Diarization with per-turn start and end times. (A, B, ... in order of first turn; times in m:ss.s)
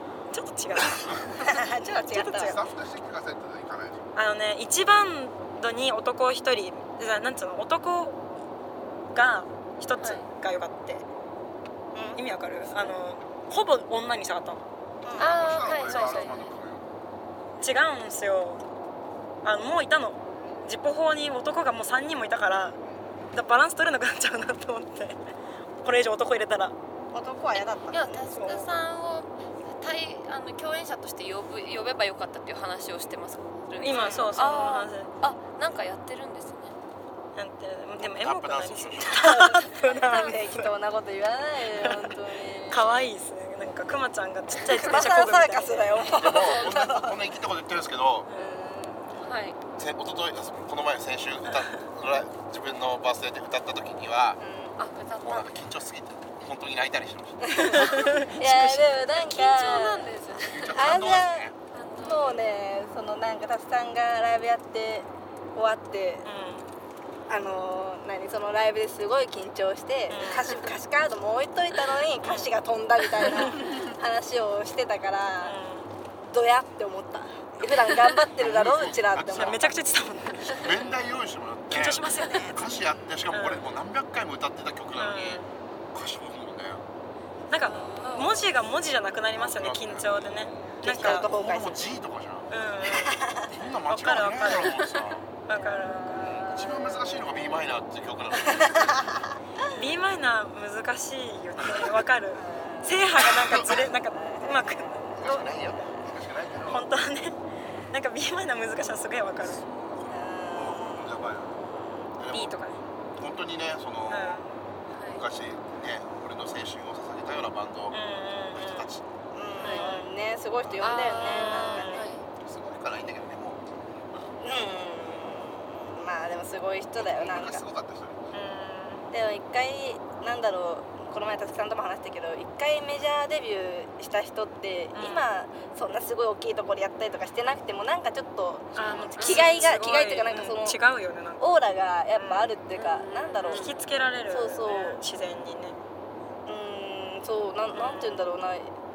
0:00.3-0:02.6 A
0:00.9-0:01.2 B
0:01.3-0:02.6 C
0:02.4-0:04.1 B
0:04.2-0:08.2 A
0:09.1-0:11.0 A
0:10.0-0:10.3 D
0:11.9-0:12.2 C
0:12.2-0:14.6 A
0:15.0-0:15.5 C
0:15.2-0:16.5 D
0:15.2-0:16.9 B
0:17.6-0:18.6 A
0:19.4-0:22.8 A
0:23.3-0:25.2 A
0:25.8-0:26.7 A
0:27.1-0:28.3 C
0:27.9-0:36.8 D
0:28.3-0:28.7 A
0:33.8-0:35.1 A
0:37.4-0:40.7 A
0:38.0-0:39.2 B
0:39.2-0:43.1 C
0:41.8-0:42.1 A
0:42.7-0:45.9 A
0:44.8-0:47.2 C
0:46.0-0:46.8 D
0:46.1-0:48.3 B
0:48.3-0:49.2 C
0:49.2-0:49.6 D
0:49.7-0:54.4 B
0:54.4-0:54.8 C
0:54.8-0:55.5 D
0:55.2-0:58.3 B
0:57.5-1:00.2 C
0:57.7-0:58.9 A
0:59.0-1:01.0 D
1:00.4-1:01.6 B
1:00.7-1:06.3 C
1:01.7-1:02.5 D
1:06.2-1:06.7 A
1:07.3-1:15.6 C
1:10.1-1:10.6 A
1:12.2-1:12.6 A
1:13.2-1:13.7 A
1:15.4-1:15.9 A
1:16.3-1:19.7 C
1:17.6-1:19.7 B
1:19.3-1:20.7 A
1:20.5-1:26.8 B
1:21.7-1:22.7 A
1:23.3-1:23.7 A
1:25.0-1:25.5 A
1:27.5-1:31.3 A
1:27.6-1:28.2 C
1:27.6-1:28.5 D
1:29.4-1:32.5 B
1:30.8-1:32.0 C
1:32.5-1:33.3 A
1:33.1-1:33.3 C
1:33.3-1:35.3 B
1:33.9-1:34.8 A
1:35.5-1:36.6 A
1:35.5-1:37.6 C
1:36.2-1:39.0 B
1:38.6-1:39.2 C
1:39.7-1:44.9 A
1:42.3-1:46.0 C
1:45.2-1:46.9 B
1:46.7-1:47.4 A
1:47.9-1:49.6 A
1:49.4-1:51.6 B
1:50.1-1:52.1 C
1:52.2-1:52.6 B
1:52.3-1:52.8 A
1:53.2-1:54.4 B
1:54.1-1:54.7 A
1:54.9-1:55.2 D
1:55.1-1:58.0 B
1:57.9-1:58.9 A
1:58.5-1:59.0 B
1:59.3-2:02.1 C
1:59.6-1:59.9 D
1:59.6-2:00.2 A
2:00.6-2:01.1 B
2:00.8-2:02.3 D
2:01.2-2:02.1 A
2:02.4-2:03.6 B
2:04.4-2:07.6 C
2:07.0-2:08.2 B
2:08.3-2:09.1 A
2:09.1-2:20.8 C
2:14.9-2:15.3 A
2:18.8-2:21.4 A
2:19.1-2:19.6 D
2:21.4-2:23.7 C
2:22.2-2:22.5 A
2:22.7-2:23.8 D
2:23.5-2:25.8 A
2:24.3-2:25.0 C
2:26.5-2:28.7 C
2:27.7-2:28.3 A